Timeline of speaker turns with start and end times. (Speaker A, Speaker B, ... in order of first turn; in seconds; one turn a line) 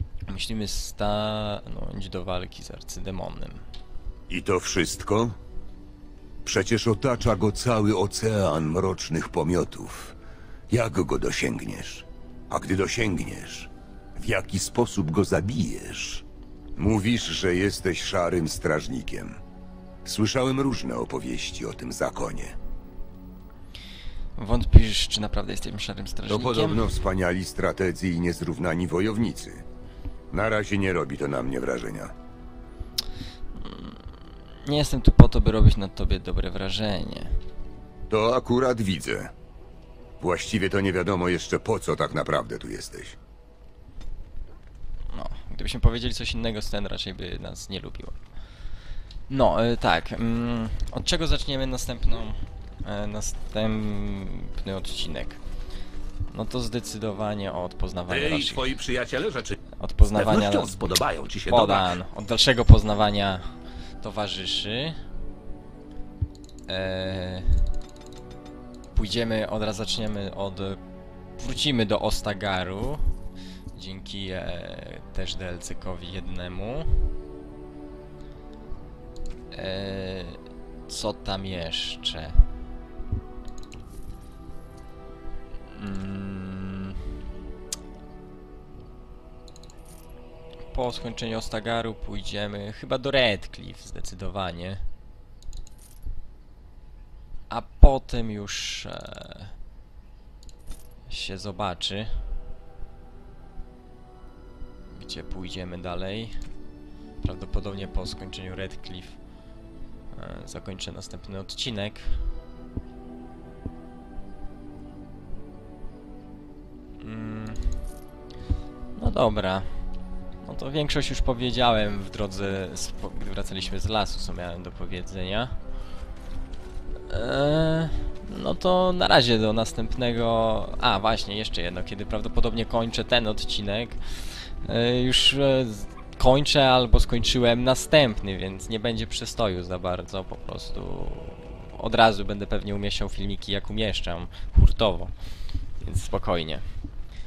Speaker A: 0.3-3.6
Speaker B: 4.3-5.4
Speaker B: 6.4-10.2
Speaker B: 10.7-16.2
Speaker B: 16.8-19.4
Speaker B: 20.1-22.6
Speaker A: 24.4-26.8
Speaker B: 26.3-29.6
Speaker B: 30.3-32.1
Speaker A: 33.5-37.4
Speaker B: 38.1-39.3
Speaker B: 40.2-43.2
Speaker A: 45.1-48.2
Speaker A: 49.3-55.4
Speaker A: 56.3-58.8
Speaker C: 58.1-59.6
Speaker A: 59.8-60.8
Speaker C: 60.1-61.9
Speaker A: 61.5-65.0
Speaker A: 66.7-67.7
Speaker A: 68.9-70.8
Speaker A: 71.4-73.1
Speaker A: 73.7-77.1
Speaker A: 79.5-82.5
Speaker A: 85.6-87.1
Speaker A: 90.7-94.9
Speaker A: 97.5-99.5
Speaker A: 101.1-102.2
Speaker A: 104.9-106.4
Speaker A: 107.2-109.2
Speaker A: 110.1-112.3
Speaker A: 117.0-117.8
Speaker A: 119.0-125.6
Speaker A: 127.1-145.1
Speaker A: 145.8-146.7